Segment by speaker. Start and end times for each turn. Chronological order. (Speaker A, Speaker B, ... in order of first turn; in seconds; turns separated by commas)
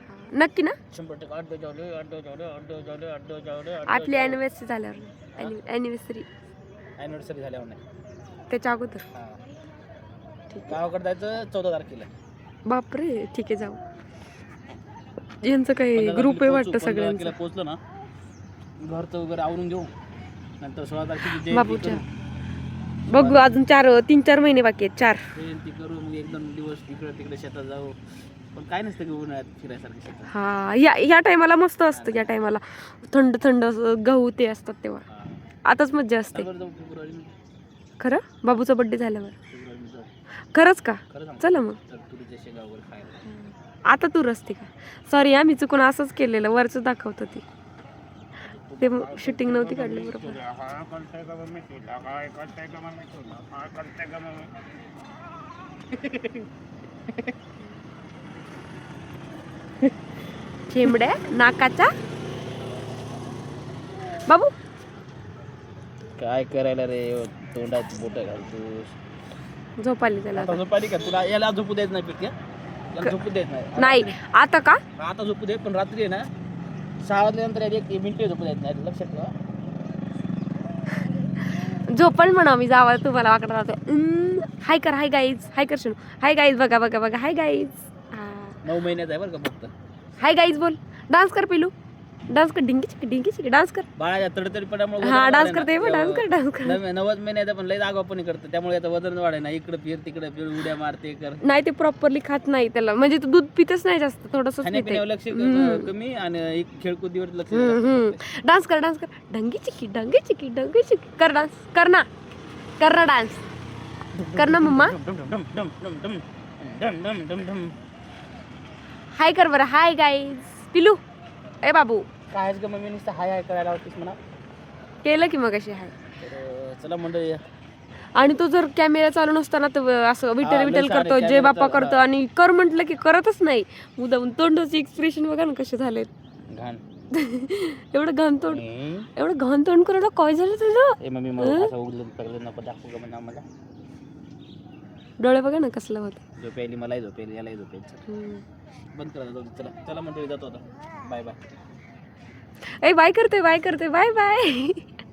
Speaker A: 0.1-0.8, Speaker B: 0.9-4.4, Speaker A: 3.8-6.3, Speaker B: 5.3-5.6, Speaker B: 7.0-7.8, Speaker A: 8.5-9.1, Speaker B: 9.1-9.4, Speaker B: 10.7-12.1, Speaker A: 12.7-13.8, Speaker A: 15.4-17.4, Speaker B: 15.9-17.8, Speaker B: 18.8-19.9, Speaker B: 20.6-22.0, Speaker A: 21.3-22.0, Speaker A: 23.1-25.2, Speaker B: 23.1-23.5, Speaker B: 25.3-28.0, Speaker B: 28.5-30.3, Speaker A: 30.3-35.0, Speaker B: 31.9-32.4, Speaker B: 35.1-35.4, Speaker A: 35.6-36.5, Speaker B: 36.3-37.3, Speaker A: 38.0-39.4, Speaker B: 39.5-40.1, Speaker A: 40.5-41.8, Speaker B: 41.1-43.3, Speaker A: 43.9-47.4, Speaker B: 48.4-54.5, Speaker A: 48.8-50.5, Speaker B: 56.0-56.4, Speaker A: 60.7-61.9, Speaker A: 64.3-64.5, Speaker B: 66.2-68.9, Speaker A: 69.8-70.6, Speaker B: 70.3-72.3, Speaker B: 72.9-74.1, Speaker A: 73.8-74.8, Speaker B: 75.0-76.3, Speaker B: 77.0-79.3, Speaker A: 81.5-88.6, Speaker B: 88.6-89.7, Speaker A: 90.2-91.7, Speaker A: 92.3-93.8, Speaker B: 94.0-101.4, Speaker A: 95.0-96.8, Speaker A: 101.4-105.9, Speaker B: 104.6-108.2, Speaker A: 107.5-112.1, Speaker A: 112.8-113.4, Speaker B: 114.1-117.7, Speaker A: 114.3-114.9, Speaker A: 119.2-121.0, Speaker A: 121.6-122.1, Speaker B: 122.3-124.2, Speaker A: 125.0-125.9, Speaker B: 126.2-127.4, Speaker A: 128.2-136.1, Speaker B: 130.4-132.1, Speaker B: 136.5-136.8, Speaker A: 137.1-138.6, Speaker B: 138.5-139.1, Speaker A: 139.2-141.7, Speaker B: 141.0-143.4, Speaker A: 145.2-146.2, Speaker B: 146.4-148.0, Speaker A: 148.1-148.4, Speaker B: 148.9-151.4, Speaker A: 152.8-154.9